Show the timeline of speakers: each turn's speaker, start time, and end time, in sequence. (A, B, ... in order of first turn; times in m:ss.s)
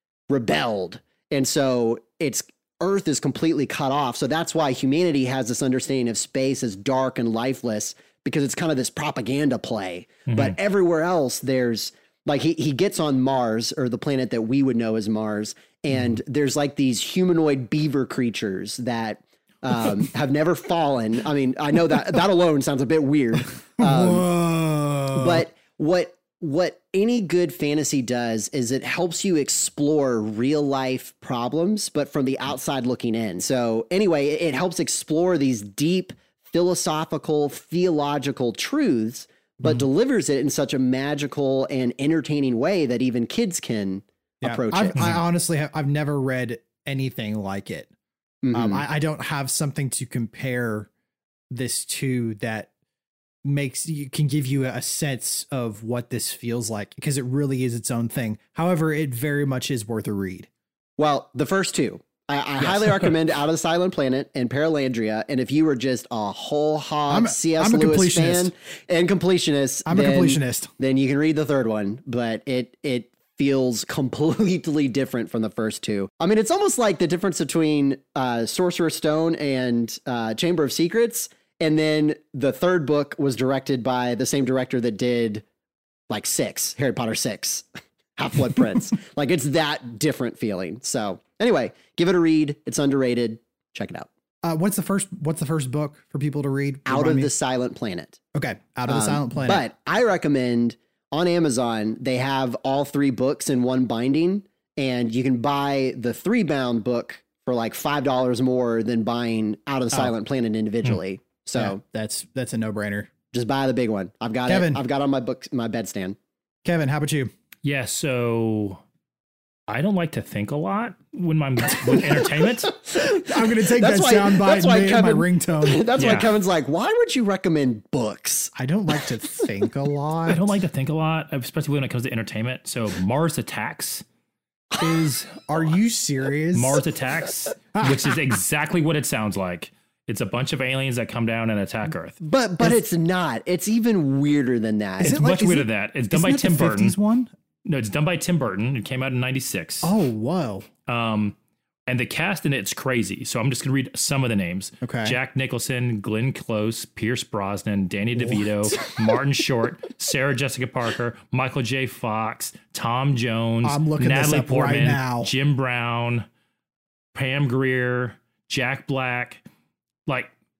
0:00.3-0:24.3 A
0:10.3-0:10.6 B
0:23.8-0:25.4 C
0:25.1-0:45.1 A
0:44.4-0:47.9 C
0:48.4-0:48.8 A
0:48.5-0:50.9 C
0:51.5-0:52.7 C
0:53.4-1:00.5 C
1:01.0-1:25.4 A
1:07.1-1:08.5 C
1:09.8-1:10.7 C
1:26.1-1:27.6 A
1:28.2-1:34.1 A
1:34.4-1:37.3 C
1:36.9-1:38.2 A
1:38.3-1:39.6 C
1:38.9-1:51.8 A
1:51.6-1:53.1 C
1:53.3-1:56.2 A
1:54.5-1:54.8 C
1:56.6-1:57.3 C
1:57.6-1:58.8 B
1:59.7-2:02.7 B
2:02.7-2:08.5 A
2:03.1-2:05.8 C
2:06.0-2:06.3 B
2:08.5-2:10.5 C
2:10.3-2:14.0 B
2:14.8-2:16.8 C
2:14.8-2:15.4 B
2:16.5-2:22.2 B
2:17.7-2:18.1 C
2:22.2-2:25.2 A
2:25.0-2:27.3 C
2:25.0-2:27.0 B
2:27.6-2:29.9 B
2:29.8-2:30.7 C
2:30.9-2:31.3 B
2:31.9-2:46.2 B
2:34.8-2:35.2 C
2:38.2-2:38.5 C
2:43.6-2:45.3 C
2:47.1-2:49.4 B